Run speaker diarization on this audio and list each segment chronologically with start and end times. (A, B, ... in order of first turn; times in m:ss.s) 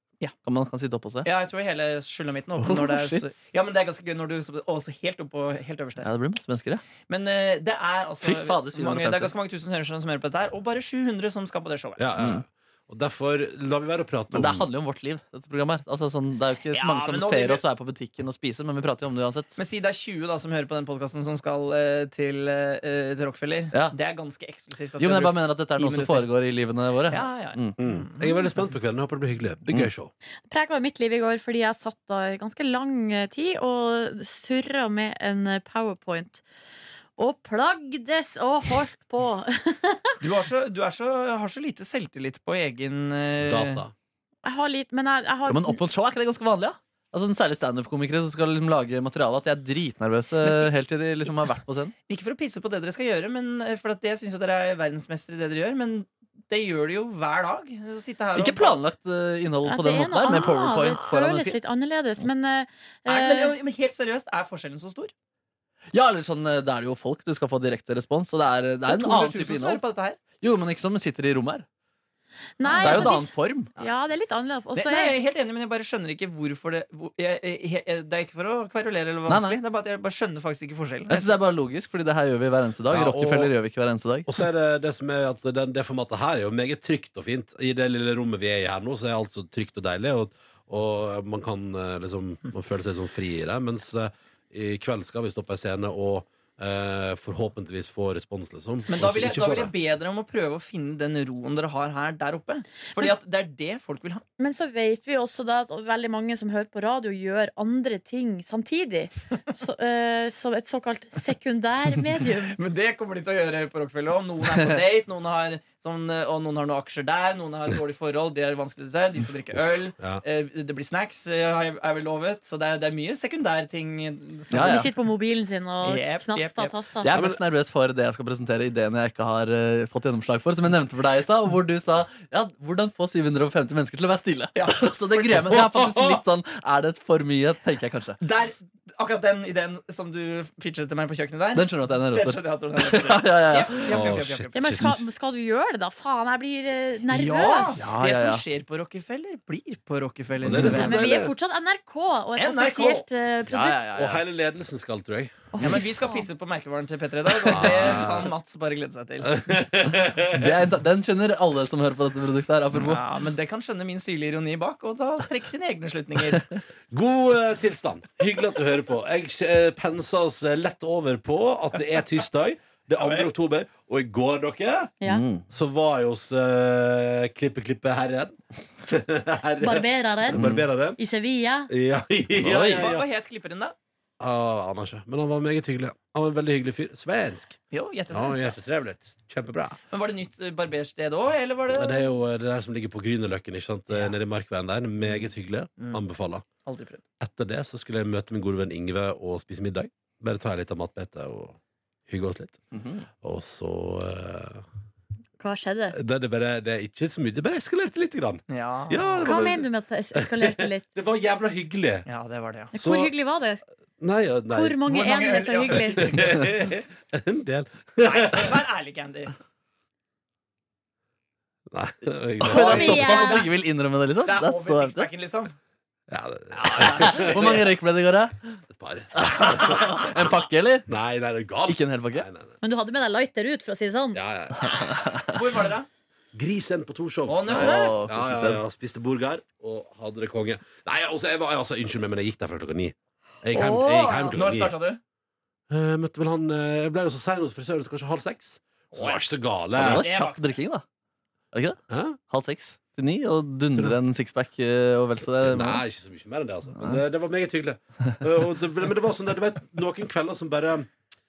0:00.4-0:01.3 A
0:01.2-0:06.1 B
0:02.6-0:03.2 A
0:06.0-0:06.8 A
0:07.1-0:12.0 B
0:08.2-0:09.3 A
0:12.0-0:14.7 C
0:12.2-0:12.4 A
0:14.3-0:19.6 A
0:16.7-0:17.6 B
0:19.6-0:26.3 B
0:25.0-0:27.7 A
0:27.1-0:28.4 B
0:27.8-0:30.1 C
0:30.5-0:36.4 D
0:37.2-0:40.2 D
0:40.2-0:43.8 B
0:43.4-0:43.9 C
0:44.4-0:45.8 D
0:45.5-0:51.9 A
0:52.1-0:58.8 B
0:58.4-1:01.5 A
0:59.6-1:03.5 D
1:03.0-1:05.1 B
1:05.9-1:09.8 A
1:08.8-1:10.2 B
1:10.4-1:11.6 A
1:12.6-1:15.1 D
1:12.6-1:13.9 B
1:12.8-1:13.7 A
1:14.8-1:21.3 B
1:19.3-1:19.6 A
1:21.1-1:24.3 A
1:22.9-1:23.5 C
1:24.2-1:39.7 C
1:38.9-1:44.2 B
1:44.4-1:52.6 D
1:52.5-2:04.9 B
2:04.5-2:04.9 A
2:04.5-2:07.1 D
2:05.8-2:06.7 B
2:07.0-2:18.2 A
2:07.1-2:07.4 C
2:14.5-2:15.5 B
2:15.4-2:16.2 C
2:18.2-2:24.7 B
2:21.5-2:24.1 A
2:23.9-2:25.0 C
2:24.5-2:27.9 D
2:27.1-2:31.2 B
2:27.8-2:28.4 A
2:30.4-2:31.3 C
2:30.5-2:30.8 A
2:30.6-2:34.0 D
2:32.4-2:33.0 B
2:33.5-2:34.2 A
2:34.0-2:35.4 C
2:35.5-2:36.2 D
2:35.6-2:39.4 B
2:37.4-2:38.3 C
2:37.5-2:38.0 A
2:39.2-2:40.6 C
2:40.3-2:43.0 A
2:42.7-2:46.5 B
2:46.9-2:54.9 C
2:53.0-2:53.3 B
2:55.0-2:55.4 A
2:55.5-3:01.0 C
2:59.6-3:01.7 D
3:00.3-3:00.6 A
3:01.7-3:03.0 C
3:02.4-3:02.9 A
3:02.5-3:03.7 B
3:04.2-3:07.6 C
3:07.7-3:08.6 B
3:08.1-3:09.8 C
3:09.9-3:12.1 B
3:11.7-3:16.4 C
3:16.6-3:17.0 B
3:17.2-3:21.6 C
3:22.1-3:22.6 C
3:22.7-3:23.0 A
3:23.2-3:24.6 C
3:25.4-3:26.0 D
3:25.9-3:32.0 C
3:28.5-3:29.3 B
3:29.2-3:30.8 D
3:32.0-3:32.7 B
3:32.7-3:33.6 D
3:32.7-3:33.1 C
3:34.0-3:34.8 C
3:34.5-3:36.2 D
3:34.8-3:36.4 B
3:36.0-3:38.6 C
3:38.0-3:39.3 B
3:41.7-3:43.2 C
3:42.4-3:45.1 A
3:42.5-3:43.5 D
3:42.6-3:43.5 B
3:44.2-3:45.5 B
3:46.1-3:47.7 C
3:46.6-3:47.6 B
3:46.8-3:48.6 A
3:48.7-3:50.4 C
3:49.1-3:50.9 A
3:50.9-3:52.5 C
3:51.7-3:52.3 A
3:52.6-3:54.2 D
3:54.1-3:54.9 C
3:54.6-3:55.3 A
3:55.3-3:55.9 B
3:56.3-4:04.8 C
3:57.3-3:58.0 B
3:57.5-3:58.6 A
4:03.5-4:04.4 D
4:04.3-4:05.0 B
4:05.7-4:10.0 C
4:08.9-4:09.2 B
4:09.7-4:10.8 A
4:09.8-4:10.5 B
4:11.5-4:11.8 A
4:11.9-4:12.2 C
4:12.3-4:15.8 A
4:13.7-4:14.0 C
4:15.3-4:20.9 C